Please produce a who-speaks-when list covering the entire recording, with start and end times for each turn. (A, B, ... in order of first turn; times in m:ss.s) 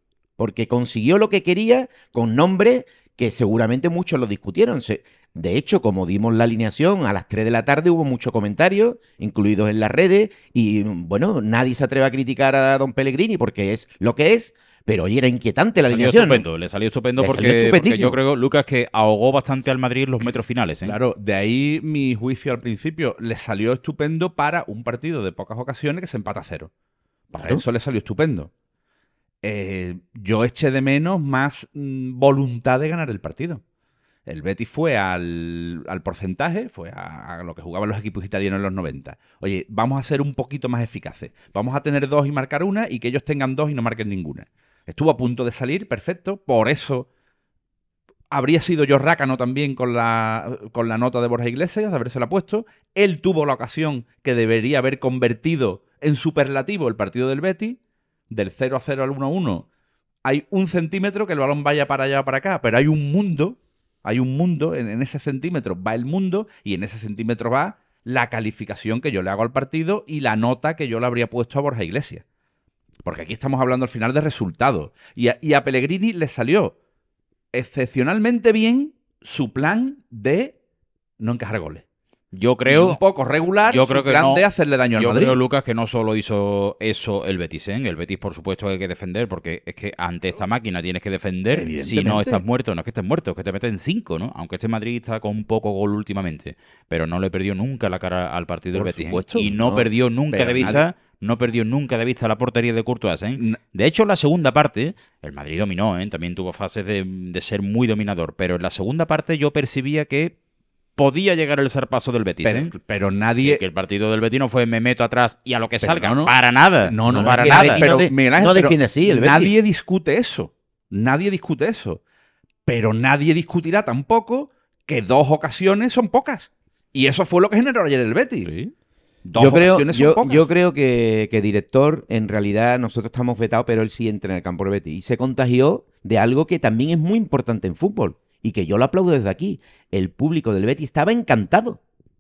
0:00.4-0:16.4 A
0:15.9-0:21.0 B
0:17.2-0:18.2 A
0:20.8-0:26.7 C
0:27.3-0:27.6 A
0:27.3-0:28.5 C
0:29.4-0:33.6 C
0:34.3-0:47.1 C
0:48.3-0:57.8 C
0:58.3-0:59.7 C
1:00.2-1:12.2 C
1:13.0-1:16.8 C
1:17.5-1:20.6 C
1:21.2-1:21.8 C
1:22.3-1:23.0 B
1:22.7-1:25.4 C
1:23.7-1:50.4 B
1:31.5-1:32.4 C
1:38.7-1:39.5 C
1:39.5-1:39.9 A
1:40.3-1:40.8 C
1:51.0-1:52.7 B
1:52.4-1:53.6 C
1:53.4-1:58.0 B
1:55.8-2:02.0 C
1:57.1-1:59.5 A
2:02.7-2:08.5 C
2:08.5-2:08.7 B
2:09.2-2:10.5 C
2:09.4-2:21.8 A